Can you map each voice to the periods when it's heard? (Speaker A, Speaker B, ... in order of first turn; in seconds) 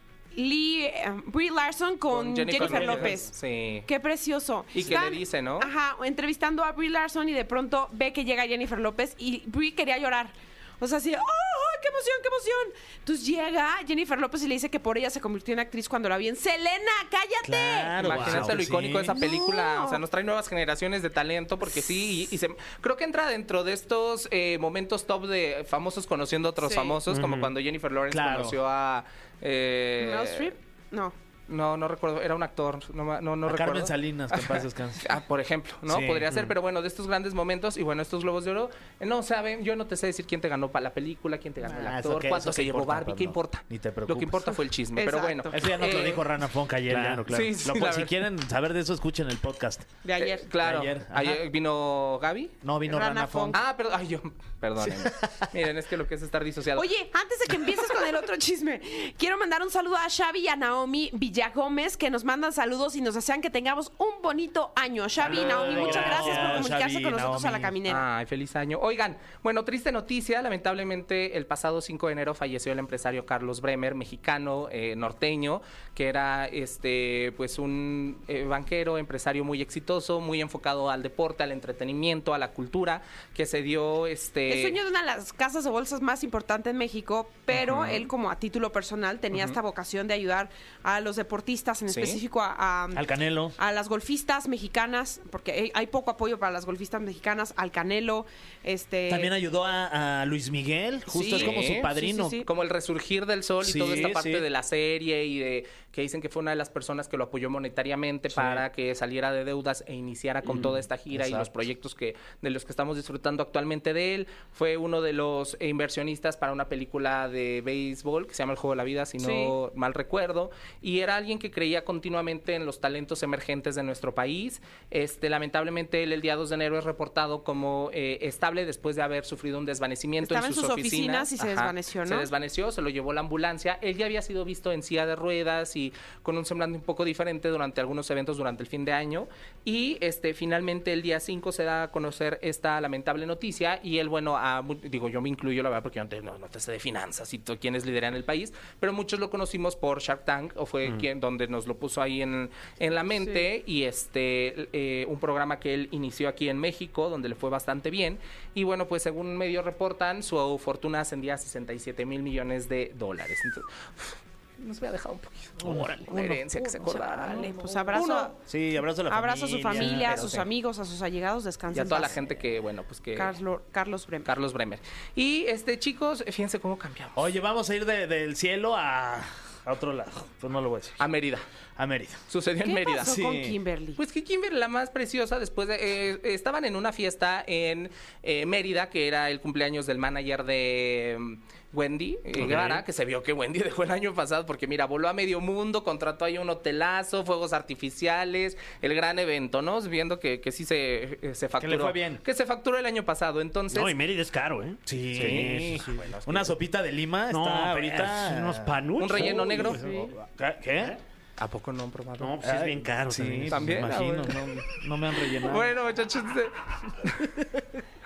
Speaker A: 0.3-3.3, 3.8-18.0, 19.1-20.0, 26.6-27.0, 30.0-31.1, 44.9-45.6, 50.0-50.4, 52.9-53.6, 56.8-68.0, 84.5-93.0, 93.6-99.3, 101.1-102.5, 119.2-119.5, 130.2-132.3, 166.8-168.3, 169.1-172.2, 173.1-174.3, 182.6-184.0
Speaker B: 2.1-3.9, 4.7-5.7, 18.0-30.5, 31.5-46.2, 47.3-48.1, 50.2-52.5, 53.5-56.9, 65.5-66.0, 67.8-84.8, 87.6-88.0, 89.3-89.6, 91.9-92.2, 101.3-168.4, 170.0-170.5, 171.7-173.4, 174.2-177.2, 181.0-181.4, 182.3-183.2, 184.0-203.9, 205.1-206.5, 209.0-209.8, 211.4-212.4, 213.5-214.4, 215.4-217.3
Speaker C: 2.6-3.1, 17.4-19.2, 28.1-28.6, 33.4-35.2, 35.9-36.4, 41.6-44.6, 45.5-49.9, 50.5-51.4, 52.6-53.6, 54.8-55.3, 65.2-67.8, 92.9-93.5, 99.1-102.4, 103.6-104.4, 108.3-108.6, 110.5-111.5, 165.6-167.8, 168.4-170.2, 177.1-181.0, 181.8-182.2, 183.0-183.6, 201.6-202.2, 204.9-211.0, 212.4-215.8
Speaker D: 18.0-18.6, 27.1-27.5, 46.9-47.4, 65.8-66.6, 165.6-166.0, 192.4-192.8, 203.7-206.0, 207.3-210.1, 212.2-213.9